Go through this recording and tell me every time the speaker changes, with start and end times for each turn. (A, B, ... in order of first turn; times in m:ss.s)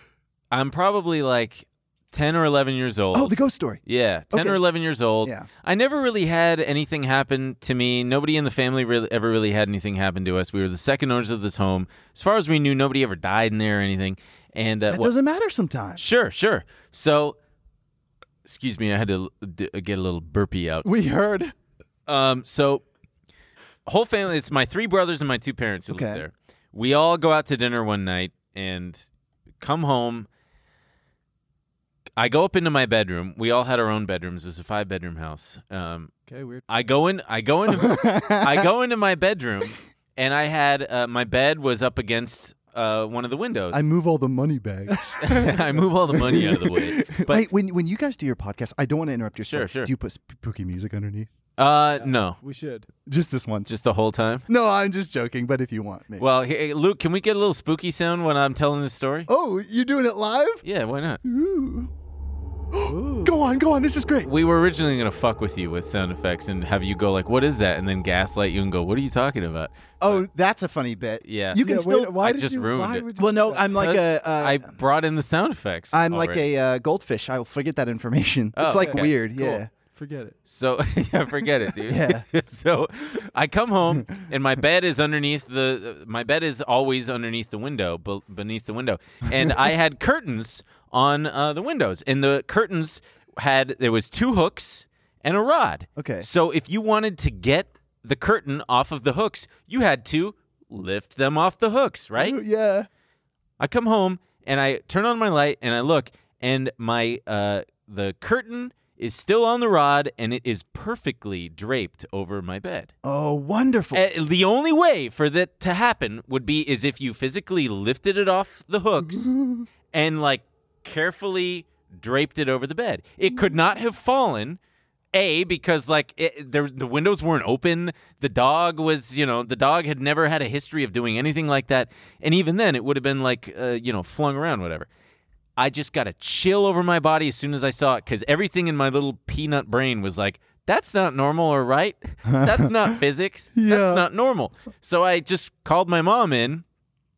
0:00.5-0:03.3 A
0:03.1-0:03.8 B
0:03.8-0:15.1 A
0:04.3-0:04.6 B
0:05.2-0:05.5 B
0:14.9-0:16.0 B
0:16.0-0:17.3 A
0:18.4-0:20.9 A
0:20.8-0:21.5 B
0:22.1-0:22.8 A
0:23.8-0:29.0 A
0:25.9-0:26.2 B
0:29.6-0:30.3 A
0:32.2-0:36.1 A
0:36.3-0:36.6 C
0:36.7-0:43.8 A
0:37.7-0:38.7 B
0:43.7-0:51.3 B
0:44.9-0:45.4 C
0:45.2-0:47.5 A
0:49.5-0:49.9 A
0:51.6-0:52.4 A
0:52.0-0:52.9 C
0:53.0-0:53.7 B
0:53.7-0:54.4 A
0:54.5-0:56.2 B
0:56.2-0:59.3 A
0:59.3-1:00.6 B
1:00.6-1:01.2 A
1:01.2-1:01.9 B
1:02.7-1:04.3 B
1:02.8-1:03.4 C
1:04.2-1:10.2 A
1:10.0-1:12.2 B
1:11.2-1:11.6 A
1:11.6-1:13.7 C
1:12.2-1:13.0 A
1:13.2-1:14.7 B
1:13.7-1:16.4 A
1:15.9-1:19.7 B
1:18.6-1:19.6 A
1:18.8-1:19.2 C
1:19.9-1:20.4 C
1:20.4-1:42.4 A
1:21.8-1:22.2 B
1:36.0-1:36.3 B
1:42.2-1:42.9 B
1:43.6-1:52.9 A
1:53.0-1:54.0 B
1:53.9-1:59.3 A
1:59.0-1:59.7 B
1:59.9-2:04.6 A
2:05.1-2:14.9 A
2:15.6-2:26.6 A
2:22.3-2:23.0 B
2:23.5-2:24.0 B